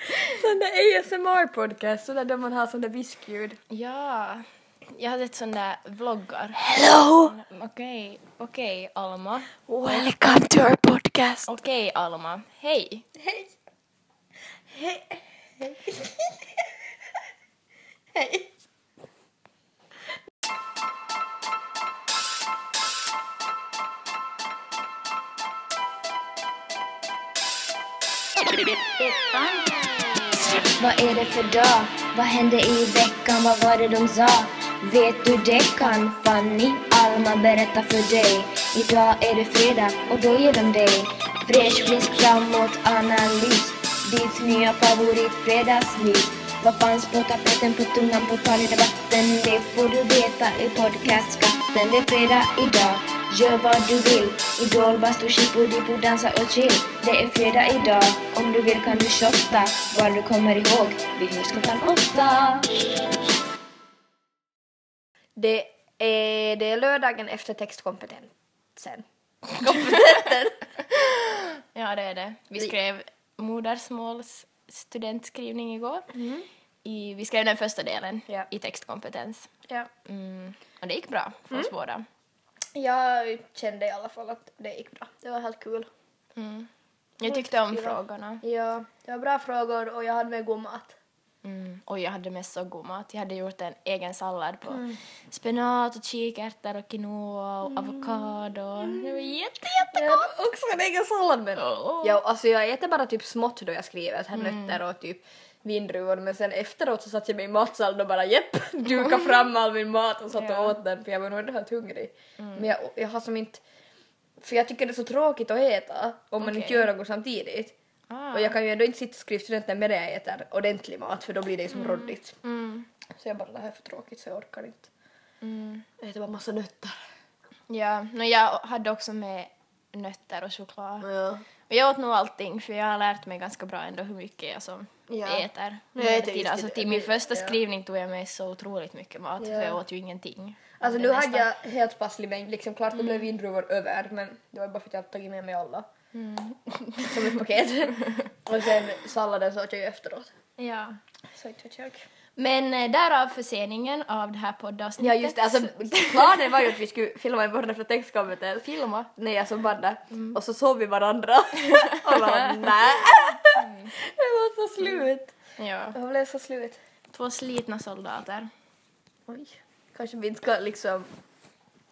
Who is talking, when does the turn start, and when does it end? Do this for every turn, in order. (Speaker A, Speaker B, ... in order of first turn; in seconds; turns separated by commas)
Speaker A: 0.3-3.6, Speaker B: 3.7-6.6, Speaker C: 6.7-7.2, Speaker B: 7.2-10.1, Speaker A: 9.7-10.6, Speaker C: 9.8-11.4, Speaker B: 11.4-13.0, Speaker A: 13.2-13.5, Speaker A: 14.7-16.6, Speaker A: 18.1-18.5, Speaker C: 29.0-29.6, Speaker C: 30.8-62.7, Speaker A: 65.4-70.6, Speaker B: 69.6-70.2, Speaker B: 70.9-76.0, Speaker A: 76.1-76.5, Speaker B: 76.8-79.5, Speaker B: 80.0-82.0, Speaker A: 82.7-85.9, Speaker B: 86.3-86.7, Speaker B: 87.2-88.4, Speaker A: 87.2-91.0, Speaker B: 91.4-100.3, Speaker A: 94.7-95.0, Speaker A: 97.7-98.3, Speaker A: 98.8-99.3, Speaker A: 99.9-113.6, Speaker B: 101.5-102.2, Speaker B: 104.3-104.8, Speaker B: 108.8-109.3, Speaker B: 110.3-110.8, Speaker B: 112.4-112.7, Speaker A: 114.4-117.7, Speaker B: 116.4-116.9, Speaker B: 118.1-118.5, Speaker A: 118.3-122.4, Speaker B: 121.7-122.9, Speaker A: 123.1-124.9, Speaker B: 125.4-125.8, Speaker A: 126.0-127.0, Speaker B: 127.7-131.1, Speaker A: 131.0-131.4, Speaker B: 131.7-141.4, Speaker A: 135.1-137.6, Speaker A: 139.4-139.8, Speaker A: 140.8-145.9, Speaker B: 142.9-143.2, Speaker B: 146.1-147.2, Speaker A: 147.1-150.3, Speaker B: 150.6-151.0, Speaker A: 151.4-152.0, Speaker B: 152.4-156.6, Speaker A: 155.0-165.4, Speaker B: 158.7-159.1, Speaker B: 161.8-162.6, Speaker B: 163.6-163.9, Speaker B: 165.6-166.0, Speaker A: 165.9-166.8, Speaker B: 167.1-168.5, Speaker A: 169.3-171.1